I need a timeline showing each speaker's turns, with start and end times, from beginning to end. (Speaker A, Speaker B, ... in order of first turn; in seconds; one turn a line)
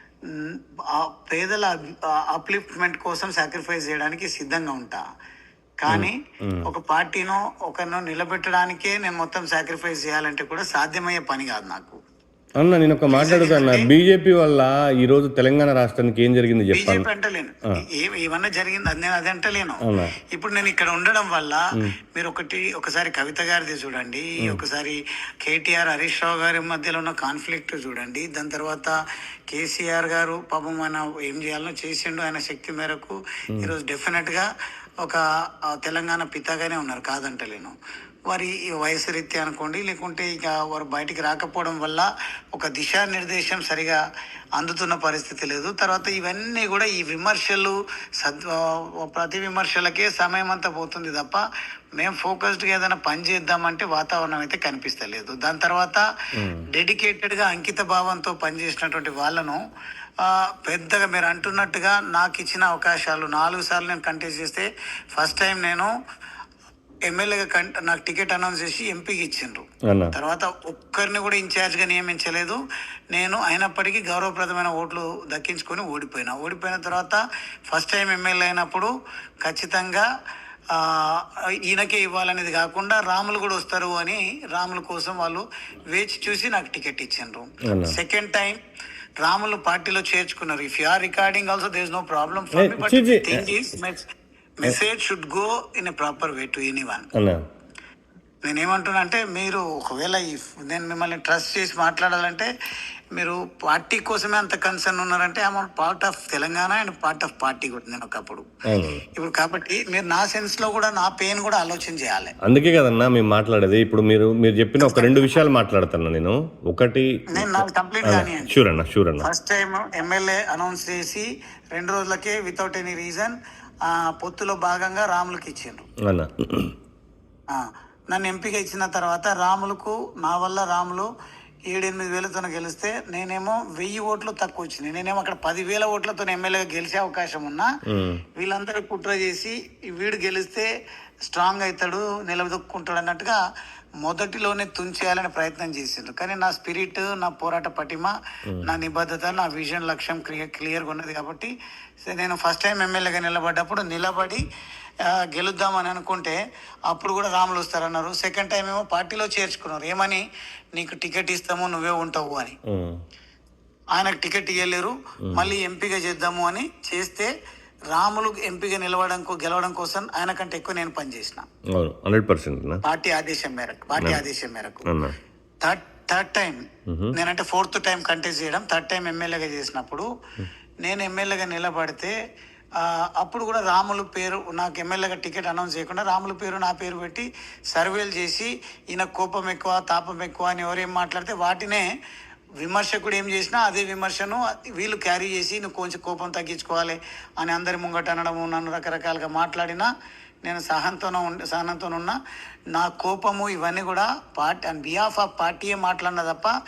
Speaker A: 0.3-5.0
Speaker A: 5.8-12.0
Speaker B: 5.9-6.6
Speaker B: 12.6-17.1
Speaker A: 13.1-13.9
Speaker A: 16.7-28.9
Speaker B: 19.9-20.1
Speaker A: 29.5-34.5
Speaker A: 35.0-37.8
Speaker A: 38.3-44.0
Speaker A: 44.6-51.4
Speaker A: 52.0-56.0
Speaker B: 56.4-56.6
Speaker A: 56.7-59.6
Speaker A: 60.2-65.9
Speaker A: 67.1-72.6
Speaker A: 73.1-77.2
Speaker A: 77.7-78.9
Speaker A: 79.5-80.1
Speaker A: 80.8-88.6
Speaker B: 87.7-88.0
Speaker A: 89.2-94.0
Speaker B: 92.6-93.5
Speaker A: 94.6-97.1
Speaker B: 97.2-97.4
Speaker A: 98.5-102.5
Speaker A: 103.2-108.5
Speaker B: 108.7-109.0
Speaker A: 109.2-112.3
Speaker B: 112.4-119.3
Speaker A: 114.8-115.4
Speaker A: 117.4-118.6
Speaker A: 119.2-123.3
Speaker A: 123.9-125.9
Speaker B: 126.1-126.7
Speaker A: 127.5-131.1
Speaker A: 131.7-137.7
Speaker B: 137.9-138.2
Speaker A: 138.4-140.7
Speaker A: 141.3-143.4
Speaker A: 144.0-151.5
Speaker A: 152.1-154.4
Speaker A: 155.1-156.4
Speaker A: 156.9-160.2
Speaker A: 160.8-162.6
Speaker B: 162.7-163.0
Speaker A: 164.0-167.3
Speaker A: 167.9-171.5
Speaker B: 171.8-172.8
Speaker A: 172.8-174.9
Speaker B: 174.0-174.2
Speaker B: 174.9-175.2
Speaker A: 175.6-180.1
Speaker B: 176.9-177.1
Speaker A: 180.8-182.1
Speaker A: 182.8-191.9
Speaker A: 192.6-199.9
Speaker A: 200.4-202.2
Speaker A: 202.8-206.5